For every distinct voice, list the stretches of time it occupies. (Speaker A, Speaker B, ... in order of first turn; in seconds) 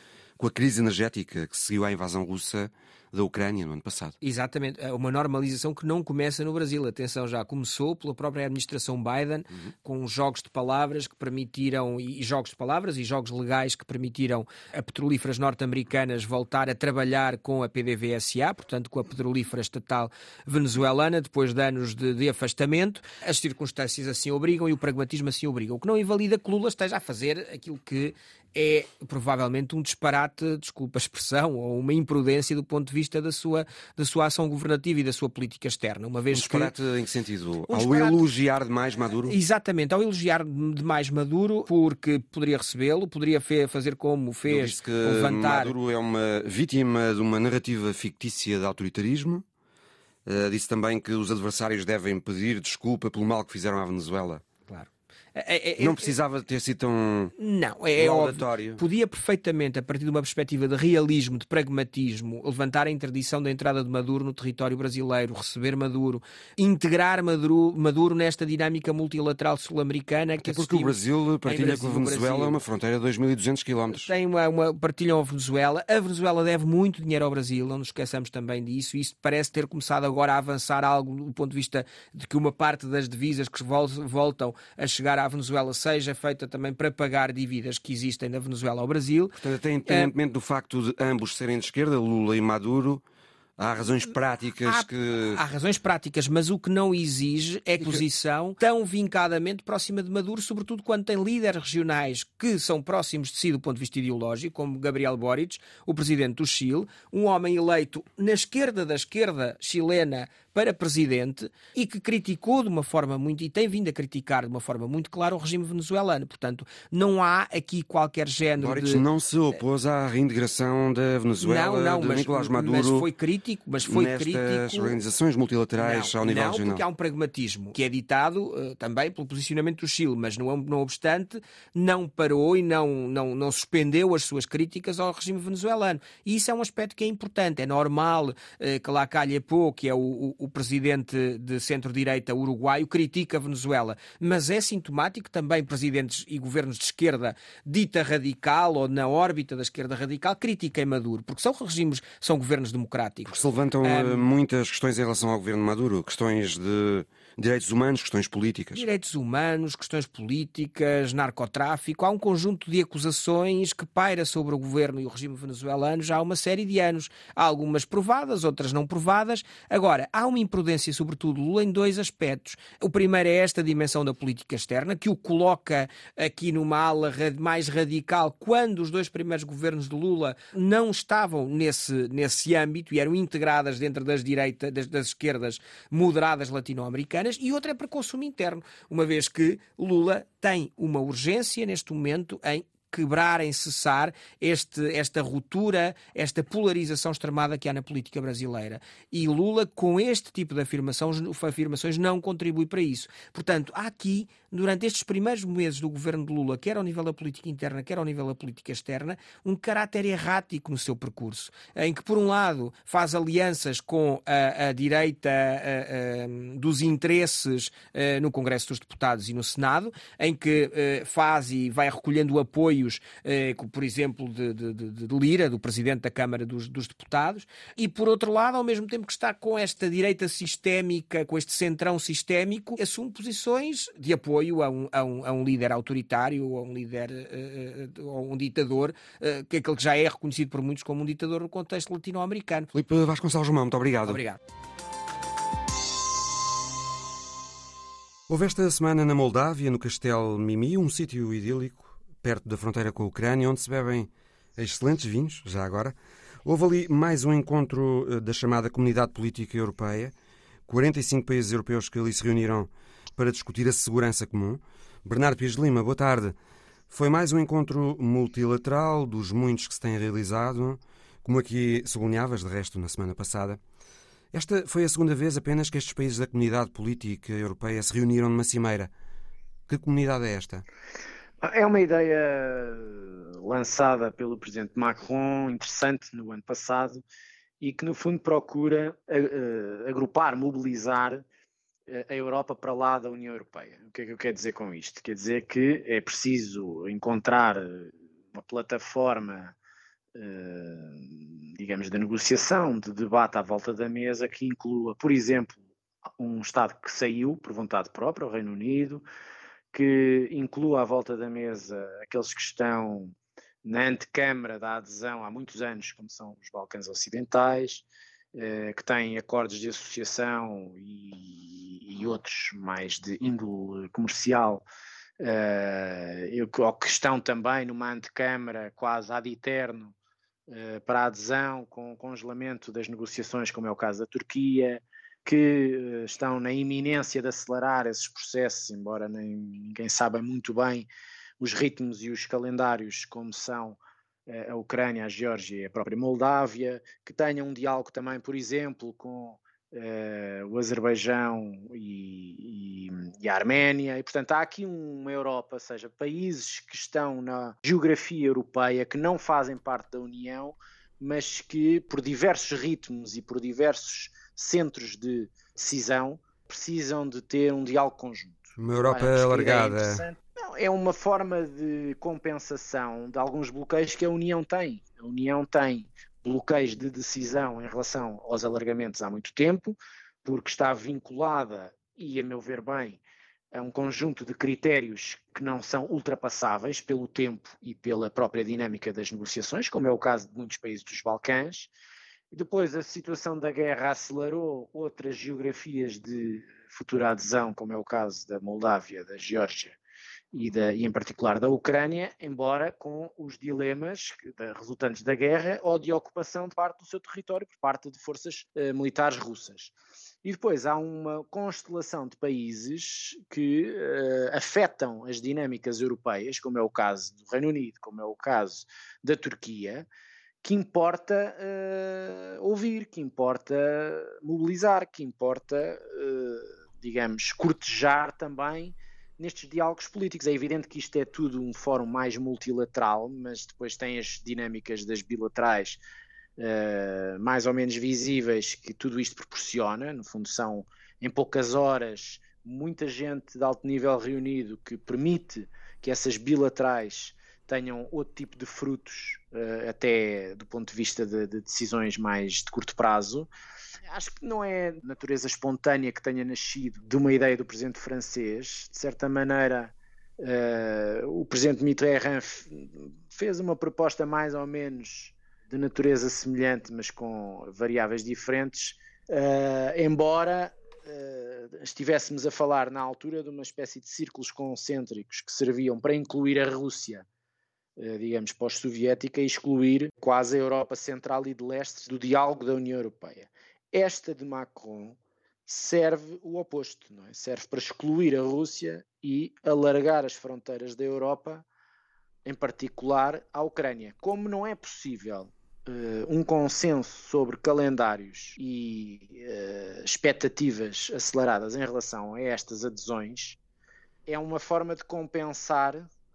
Speaker A: 0.4-4.1, 36.3-39.4, 44.5-49.4, 50.2-54.4, 55.8-57.3, 58.0-58.8, 70.4-74.1, 89.3-93.0, 93.6-95.4, 97.8-98.0, 118.6-123.1, 123.8-126.8, 153.3-158.8, 242.7-244.2, 248.3-260.1, 260.7-266.3, 266.9-273.6, 274.3-278.9, 279.7-280.6, 368.6-370.0
Speaker B: 4.2-36.7, 37.7-38.2, 39.3-45.7, 54.7-56.1, 57.4-72.6, 73.9-90.1, 94.6-119.0, 121.4-125.0, 125.8-154.3, 158.7-242.7, 244.1-244.4
Speaker C: 281.4-287.0, 287.6-291.2, 291.9-299.5, 300.1-305.6, 306.2-309.0, 309.7-324.6, 325.2-329.9, 330.5-340.9, 341.4-383.0, 383.5-391.7, 392.3-399.8, 400.3-419.9, 420.4-435.8, 436.4-453.3, 453.9-477.0, 477.8-491.4, 492.2-503.4, 504.1-505.9